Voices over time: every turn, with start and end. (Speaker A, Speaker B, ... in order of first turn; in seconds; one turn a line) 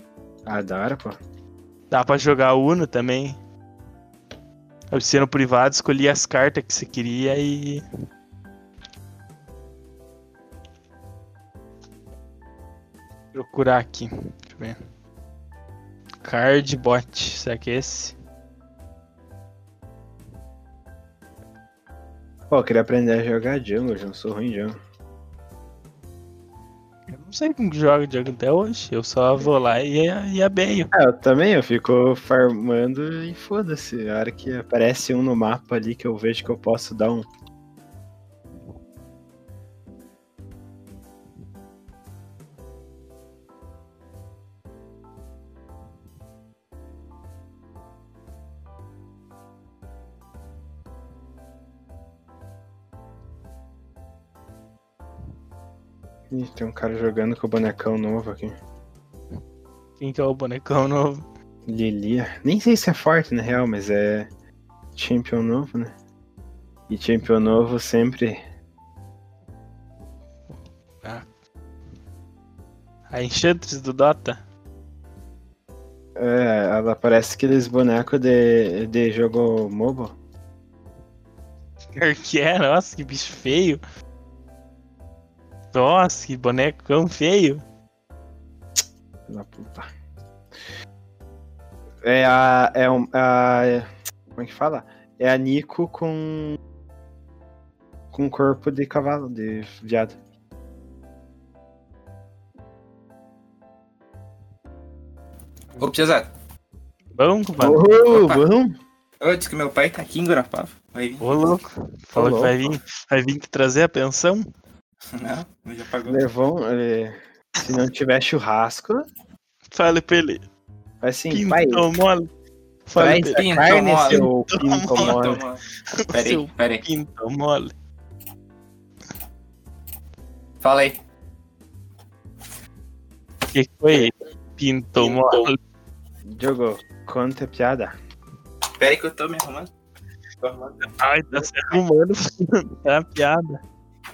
Speaker A: 0.5-1.2
Speaker B: 1.9-3.4
Speaker B: 4.9-7.8
Speaker B: 13.3-14.8
Speaker B: 16.2-18.1
Speaker A: 22.5-24.7
Speaker B: 27.1-30.9
Speaker A: 30.9-37.2
Speaker A: 56.3-58.5
Speaker B: 60.0-61.2
Speaker A: 61.7-64.3
Speaker A: 65.0-65.9
Speaker A: 66.9-68.4
Speaker B: 71.0-71.3
Speaker B: 73.1-74.4
Speaker A: 76.2-80.1
Speaker B: 82.0-83.8
Speaker B: 85.7-87.6
Speaker A: 89.3-89.9
Speaker A: 92.0-96.6
Speaker A: 98.1-100.1
Speaker C: 105.8-106.3
Speaker B: 107.2-107.8
Speaker A: 107.6-108.8
Speaker C: 108.1-108.4
Speaker C: 109.2-111.2
Speaker B: 111.2-114.5
Speaker A: 112.1-112.5
Speaker C: 115.1-116.2
Speaker A: 116.0-119.0
Speaker B: 119.7-120.4
Speaker A: 121.0-121.9
Speaker B: 121.3-122.3
Speaker B: 122.8-123.4
Speaker A: 122.9-125.4
Speaker C: 123.3-124.3
Speaker B: 124.0-125.2
Speaker C: 124.9-125.6
Speaker B: 126.1-127.7
Speaker C: 126.1-126.8
Speaker C: 130.6-131.0
Speaker B: 133.5-135.6
Speaker C: 135.0-135.5
Speaker A: 136.3-137.9
Speaker C: 138.8-139.7
Speaker C: 140.4-141.6
Speaker B: 141.0-143.6